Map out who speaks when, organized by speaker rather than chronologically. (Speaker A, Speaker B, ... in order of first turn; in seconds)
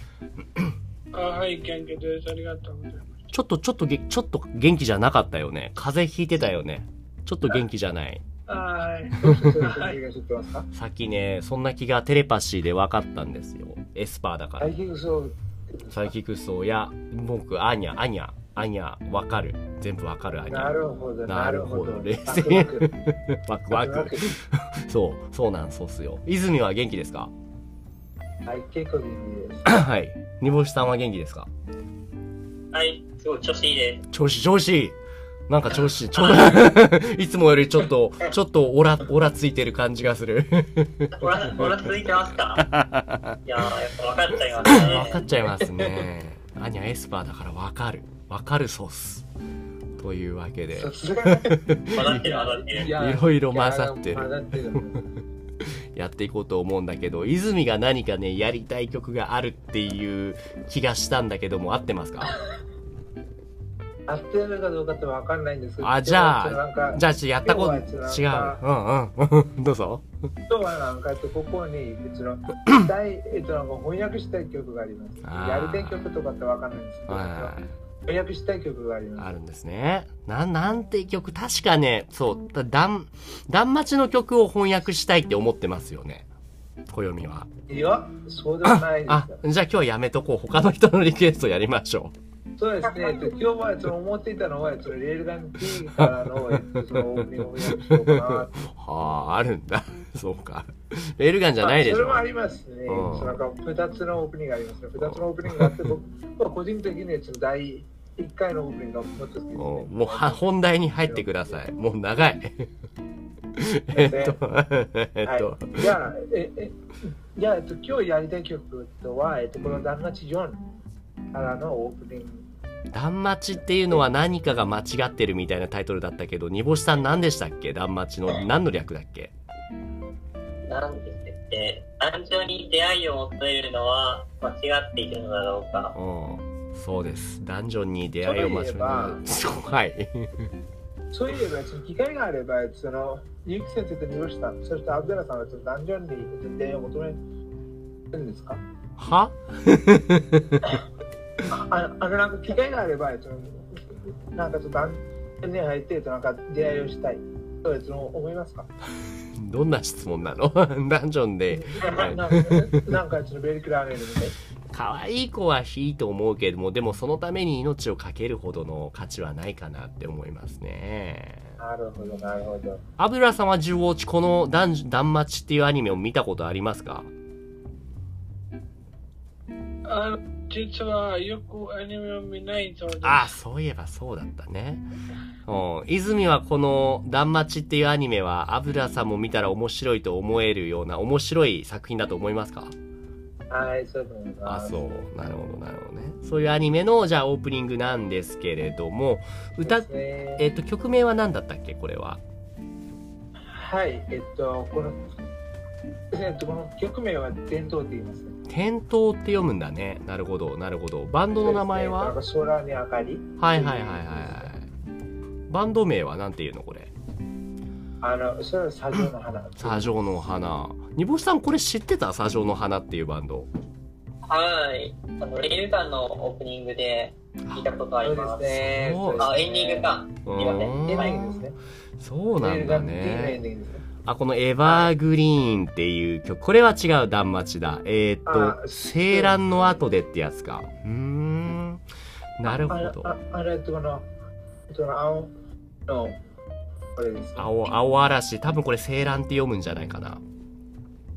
Speaker A: 1.1-3.1, 8.5-10.0, 179.9-183.3
Speaker B: 3.3-8.2, 10.7-14.8, 15.9-27.3, 29.6-31.5, 34.1-35.0, 35.5-41.7, 42.5-43.4, 44.7-49.3, 50.0-55.0, 55.9-62.3, 65.8-70.0, 75.2-76.1, 77.1-77.7, 79.2-86.3, 86.9-87.5, 88.7-92.1, 95.8-102.3, 102.9-103.4, 105.0-105.9, 109.6-112.7, 113.6-115.9, 119.6-119.9, 122.9-129.3, 135.9-140.5, 149.0-150.7, 159.4-162.8, 164.7-171.6, 173.0-177.1, 183.0-184.9, 185.5-192.8, 194.5-202.2, 208.5-212.2, 213.4-214.7, 215.5-216.9, 219.6-223.5, 228.6-229.3, 230.2-233.4, 234.1-241.8, 242.4-243.2, 247.4-250.2
Speaker C: 9.2-10.7, 14.6-16.1, 20.5-22.9, 23.7-24.3, 28.4-29.8, 44.7-46.0, 50.7-55.0, 64.1-68.6, 70.5-79.3, 87.7-89.4, 92.6-98.5, 101.6-111.6, 113.9-114.4, 115.2-116.8, 117.3-120.6, 121.3-122.5, 138.2-139.2, 141.1-147.2, 148.1-148.6, 151.5-153.7, 154.3-158.7, 161.5-164.3, 171.6-172.8, 193.5-194.9, 199.6-200.4, 203.5-205.1, 206.1-208.3, 211.3-214.5, 218.0-220.2, 228.0-231.6, 232.4-233.8, 234.6-234.9, 238.3-239.8, 242.5-244.1, 244.7-245.3, 245.9-246.2, 247.0-247.6
Speaker D: 32.7-34.0, 36.1-36.6, 41.2-42.7, 43.5-45.2, 52.0-53.0, 130.7-136.0, 224.3-228.6, 229.2-231.1